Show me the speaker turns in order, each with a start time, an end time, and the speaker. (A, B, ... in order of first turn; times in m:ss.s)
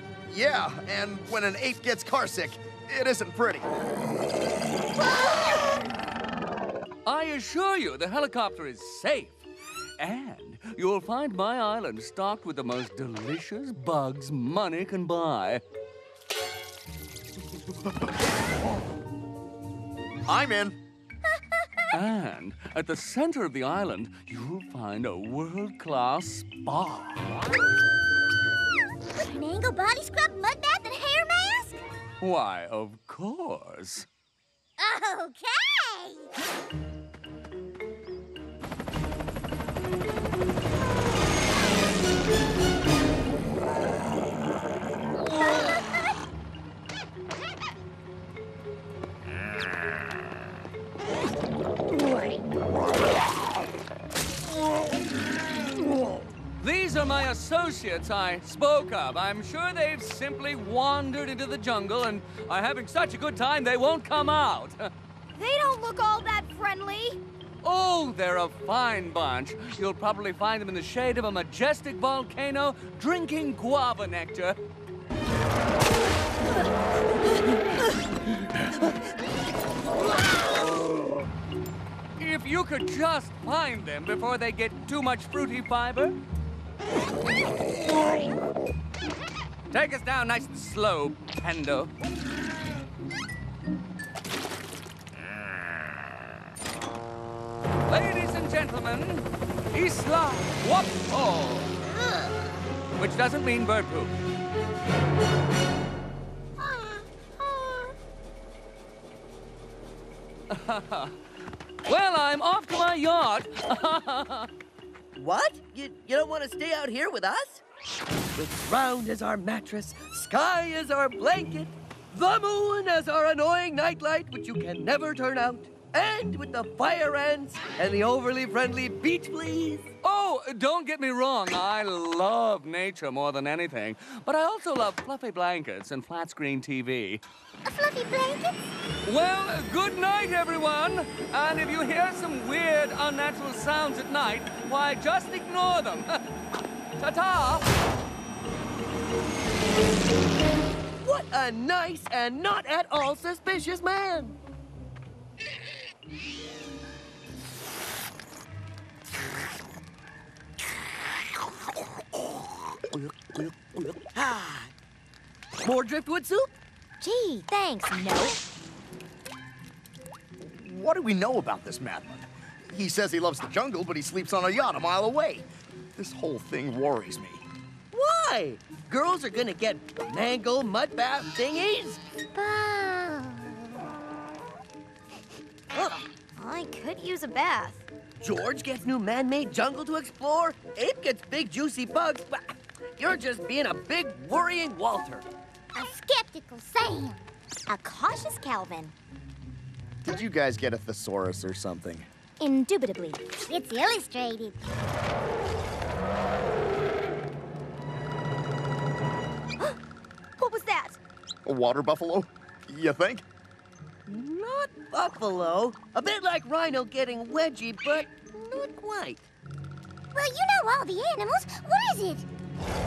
0:00.3-0:03.6 A
0:07.0-0:09.4 B
0:10.0-0:15.6 B
0:20.3-0:20.8 A
0:21.9-0:27.2 B
0:29.2-0:31.8 C
0:32.2-0:34.1 B
0:34.8-0:36.3 C
0:56.6-1:04.9 B
1:05.3-1:07.2 D
1:07.6-1:14.6 B
1:22.2-1:26.2 B
1:29.7-1:31.9 B
1:37.9-1:41.7 B
1:43.0-1:44.2 B
1:50.5-1:51.1 B
1:51.8-1:54.5 B
1:55.1-1:57.6 E
1:58.4-2:09.9 E
2:10.0-2:17.2 B
2:17.6-2:18.5 C
2:19.0-2:26.2 B
2:27.0-2:27.6 B
2:31.0-2:34.4 E
2:42.7-2:44.7 E
2:45.6-2:46.5 E
2:47.0-2:48.4 D
2:50.4-2:57.4 A
2:57.9-3:02.0 E
3:02.4-3:03.6 D
3:06.4-3:07.8 D
3:08.2-3:15.3 E
3:15.7-3:17.3 C
3:17.7-3:18.9 D
3:20.0-3:22.1 A
3:22.4-3:23.4 D
3:23.5-3:24.6 C
3:30.4-3:31.0 D
3:31.4-3:33.2 A
3:34.1-3:39.3 E
3:40.1-3:42.2 C